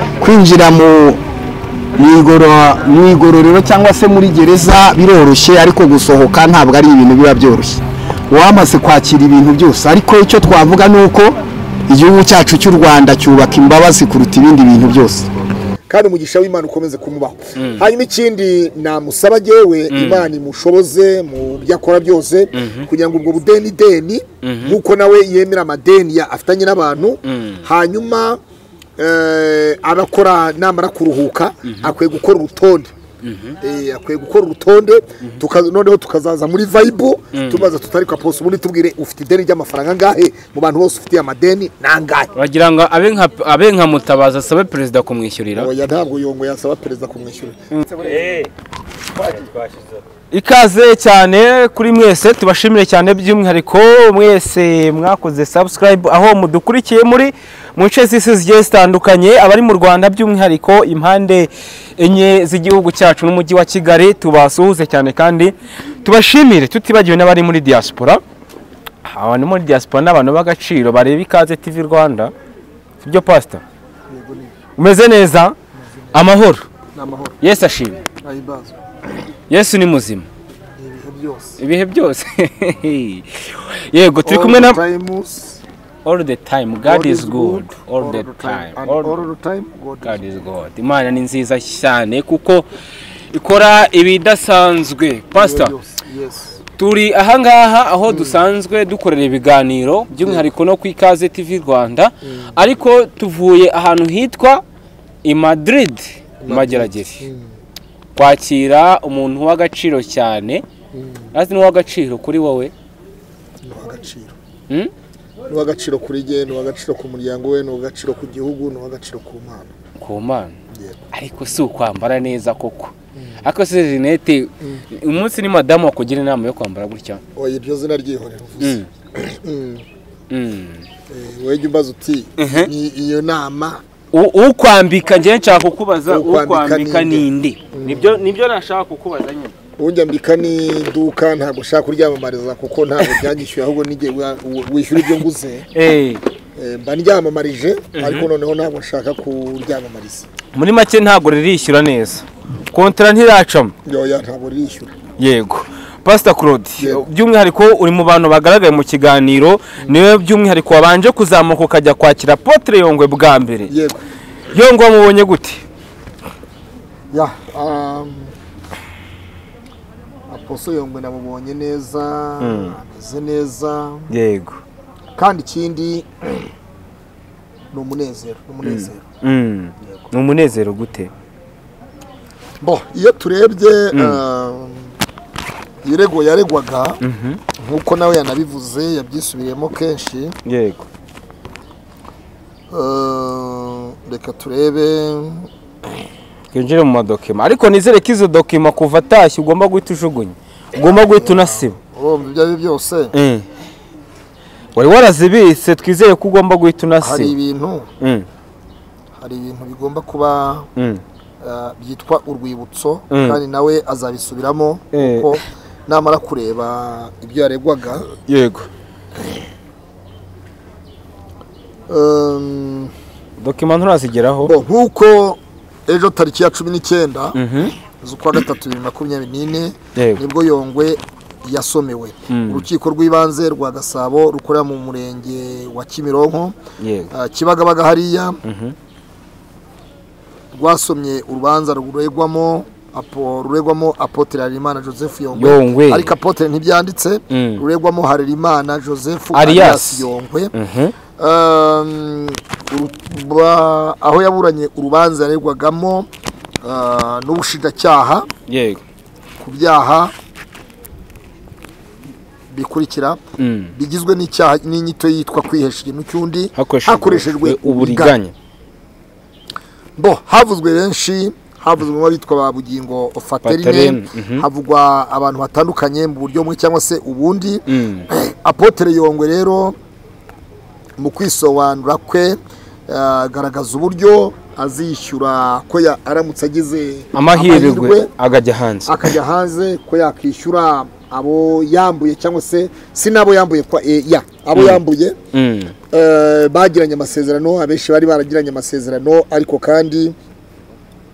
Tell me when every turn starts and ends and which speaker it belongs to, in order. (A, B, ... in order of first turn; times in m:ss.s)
0:00.2-0:01.2 A
0:02.0-0:11.4 A
0:11.9-0:15.3 A
0:15.9-0:28.4 B
0:17.6-0:17.8 C
0:19.9-0:20.3 C
0:22.5-0:22.9 C
0:24.4-0:24.8 C
0:27.2-0:27.6 C
0:29.0-0:32.9 B
0:31.6-0:31.9 C
0:33.2-0:33.6 C
0:33.6-0:42.3 B
0:37.3-0:37.7 C
0:42.4-0:45.7 C
0:45.6-0:48.3 B
0:50.3-1:08.2 C
1:09.0-1:12.3 C
1:13.0-1:13.6 C
1:14.1-1:14.5 B
1:14.8-1:15.6 C
1:16.1-1:16.7 C
1:16.9-1:17.4 B
1:17.4-1:18.0 C
1:18.2-1:18.8 B
1:19.5-1:20.3 C
1:20.8-1:21.6 B
1:21.6-1:24.8 C
1:24.2-1:25.6 B
1:26.0-1:29.1 C
1:26.8-1:30.2 B
1:30.0-1:32.6 C
1:33.3-1:35.7 C
1:35.3-1:36.6 B
1:36.8-1:44.6 C
1:38.1-1:38.4 B
1:42.2-1:42.5 B
1:45.2-1:47.2 C
1:46.4-1:47.5 B
1:48.1-1:50.6 C
1:50.9-1:51.3 B
1:51.3-1:52.7 C
1:53.6-1:54.4 B
1:55.5-1:59.7 B
2:00.0-2:00.6 C
2:00.7-2:01.0 B
2:01.1-2:07.2 C
2:07.3-2:09.8 B
2:08.6-2:08.9 C
2:10.3-2:10.8 C
2:11.1-2:13.8 B
2:12.4-2:12.7 C
2:14.1-2:19.5 C
2:16.1-2:18.2 B
2:19.8-2:25.7 B
2:25.7-2:26.2 C
2:26.6-2:30.3 B
2:27.9-2:28.3 C
2:30.5-2:33.7 C
2:33.8-2:35.0 B
2:35.2-2:43.7 C
2:36.8-2:37.0 B
2:43.7-2:44.0 B
2:44.5-2:45.6 C
2:47.1-2:48.3 B
2:50.3-2:54.1 B
2:52.4-2:52.8 C
2:54.1-2:54.6 C
2:55.2-2:56.5 B
2:57.7-2:59.0 B
2:58.6-3:01.1 C
3:02.6-3:04.9 B
3:03.9-3:04.2 C
3:05.8-3:07.0 B
3:07.0-3:07.4 C
3:07.5-3:10.4 B
3:10.4-3:10.8 C
3:12.7-3:15.5 B
3:16.5-3:21.8 C
3:20.8-3:23.1 B
3:23.1-3:23.4 C
3:24.8-3:27.3 C
3:27.0-3:27.9 B
3:28.0-3:28.2 C
3:29.2-3:30.7 B
3:30.8-3:31.0 C
3:31.4-3:38.1 B
3:33.1-3:33.4 C
3:34.9-3:35.4 C
3:38.3-3:38.7 C
3:41.9-3:42.9 B
3:43.4-3:44.5 C
3:44.4-3:56.6 B
3:47.3-3:47.7 C
3:50.0-3:50.2 C
3:52.3-3:52.7 C
3:56.8-3:57.1 C
3:57.1-3:58.4 B
3:58.4-3:58.7 C
4:00.5-4:10.5 B
4:05.3-4:06.1 C
4:07.3-4:07.6 C
4:09.3-4:10.9 C
4:11.2-4:16.1 B
4:16.6-4:18.3 B
4:18.5-4:18.8 C
4:19.4-4:20.1 B
4:22.5-4:23.2 B
4:23.4-4:23.7 C
4:23.7-4:28.2 B
4:26.6-4:28.3 C
4:30.0-4:39.8 B
4:33.4-4:34.4 C
4:37.7-4:38.1 C
4:41.0-4:42.4 B
4:42.9-4:48.1 B
4:47.1-4:49.1 C
4:48.8-4:55.2 B
4:54.5-4:54.8 C
4:55.3-4:55.7 C
4:55.9-5:00.1 B